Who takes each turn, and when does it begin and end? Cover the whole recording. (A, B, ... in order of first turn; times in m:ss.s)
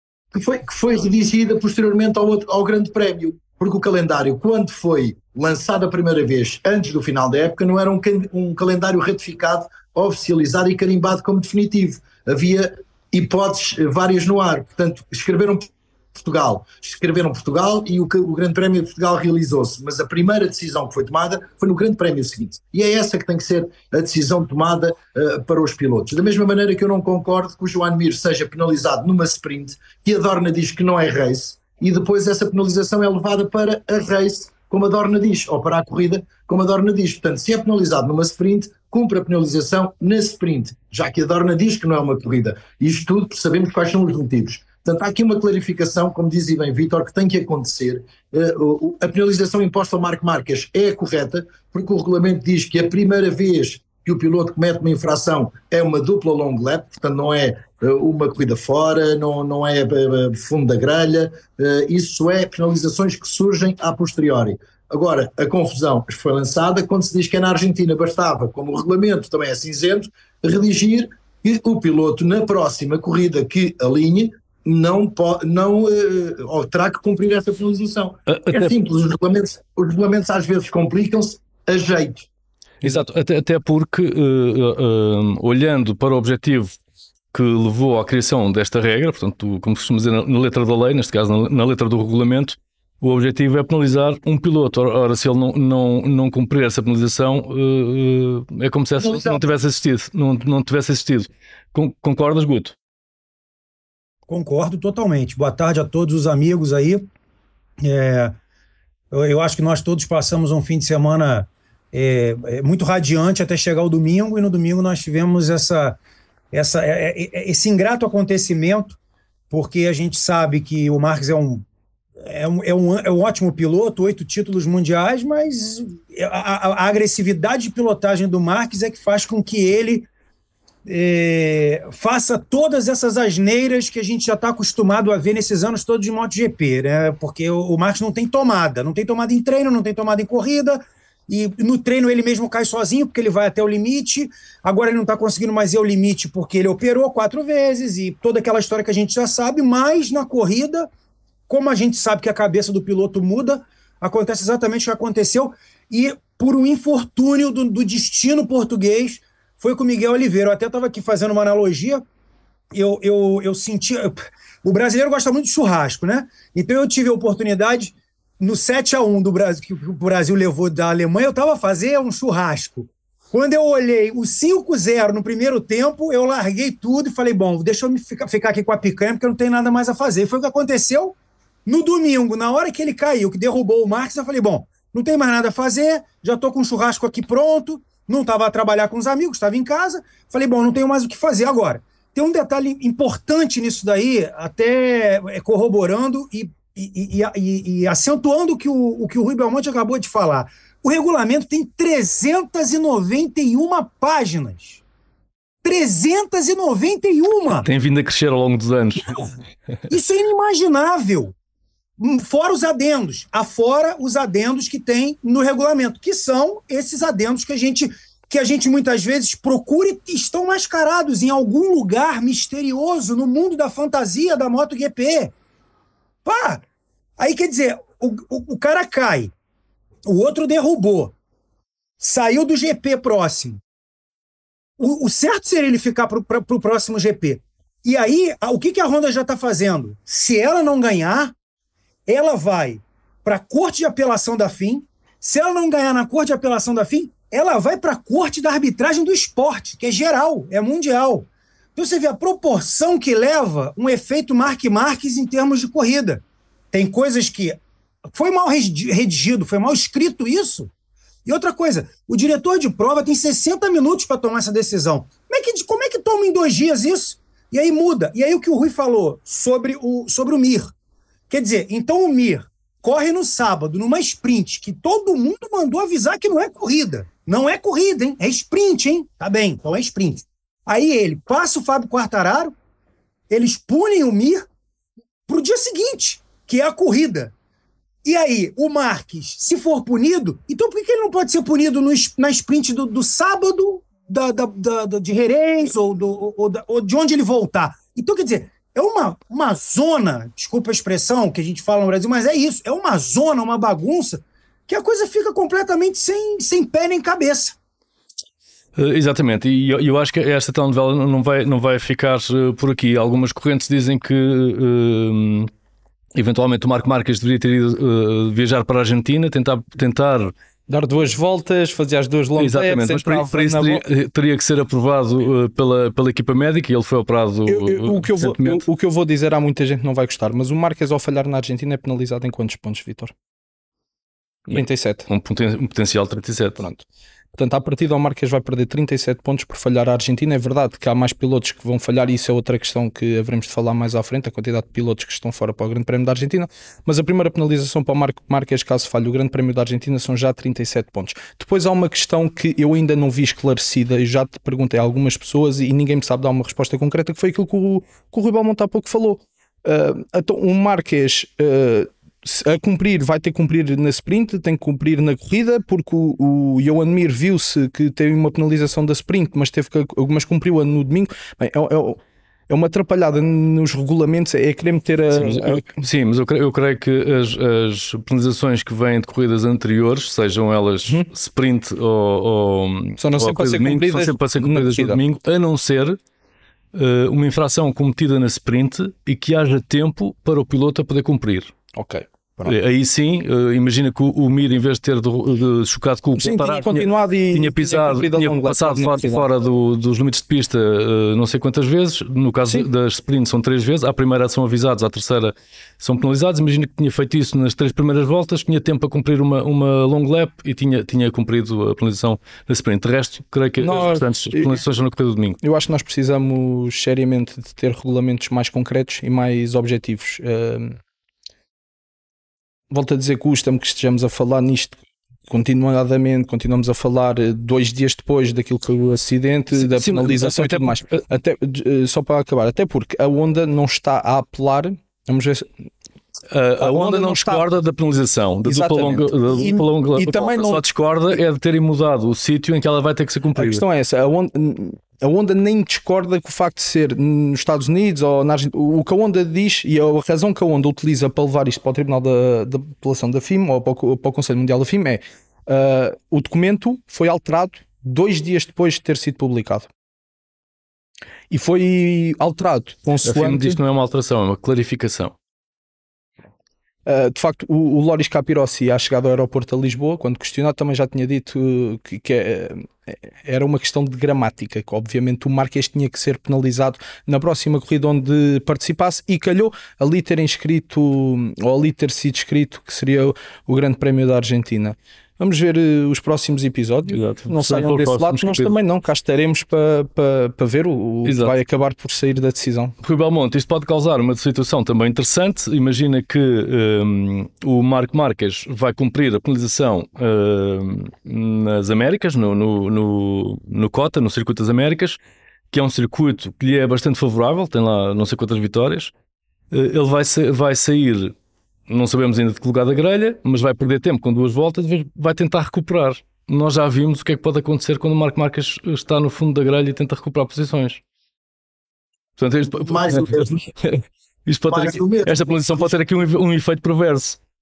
0:00.3-1:22.3 A
1:18.3-1:18.7 B
1:22.8-1:26.8 B
1:27.3-1:42.8 B
1:39.0-1:39.4 C
1:44.3-1:47.1 C
1:47.8-1:48.4 C
1:49.1-1:56.0 C
1:56.5-1:59.0 C
1:59.5-2:01.6 C
2:02.2-2:10.1 C
2:10.8-2:30.9 C
2:31.5-2:42.0 C
2:42.7-3:24.8 C
3:25.6-3:27.7 C
3:27.6-3:29.3 B
3:29.9-3:31.3 C
3:32.0-3:45.3 C
3:46.2-3:46.6 C
3:47.2-3:49.3 C
3:50.0-3:51.1 C
3:52.0-3:53.6 C
3:54.8-4:01.3 C
4:02.1-4:17.6 C
4:18.1-4:20.7 C
4:21.2-4:30.7 C
4:31.3-4:42.5 C
4:43.3-4:44.4 C
4:45.3-4:47.3 C
4:48.0-5:07.5 C
5:08.8-5:15.5 B
5:16.1-5:20.3 B
5:20.7-5:23.8 D
5:22.4-5:28.6 B
5:27.5-5:33.1 D
5:34.5-5:36.6 B
5:34.5-5:35.1 D
5:36.6-6:15.6 D
6:15.1-6:26.0 B
6:23.0-6:25.0 D
6:26.7-6:31.5 B
6:31.7-6:32.5 D
6:32.4-6:55.4 B
6:36.2-6:39.2 D
6:53.6-6:54.6 D
6:55.4-7:00.8 D
7:02.7-7:15.5 D
7:09.5-7:11.0 B
7:16.3-7:23.6 B
7:16.6-7:17.4 D
7:18.4-7:20.6 D
7:23.4-7:39.7 D
7:41.3-7:43.6 D
7:43.0-7:45.1 B
7:46.8-8:12.7 D
8:06.9-8:08.5 B
8:11.0-8:11.4 B
8:12.8-8:25.0 B
8:25.5-8:28.9 B
8:29.5-8:31.1 B
8:31.7-8:40.8 B
8:42.2-8:47.2 B
8:42.5-8:43.4 A
8:44.5-8:45.7 A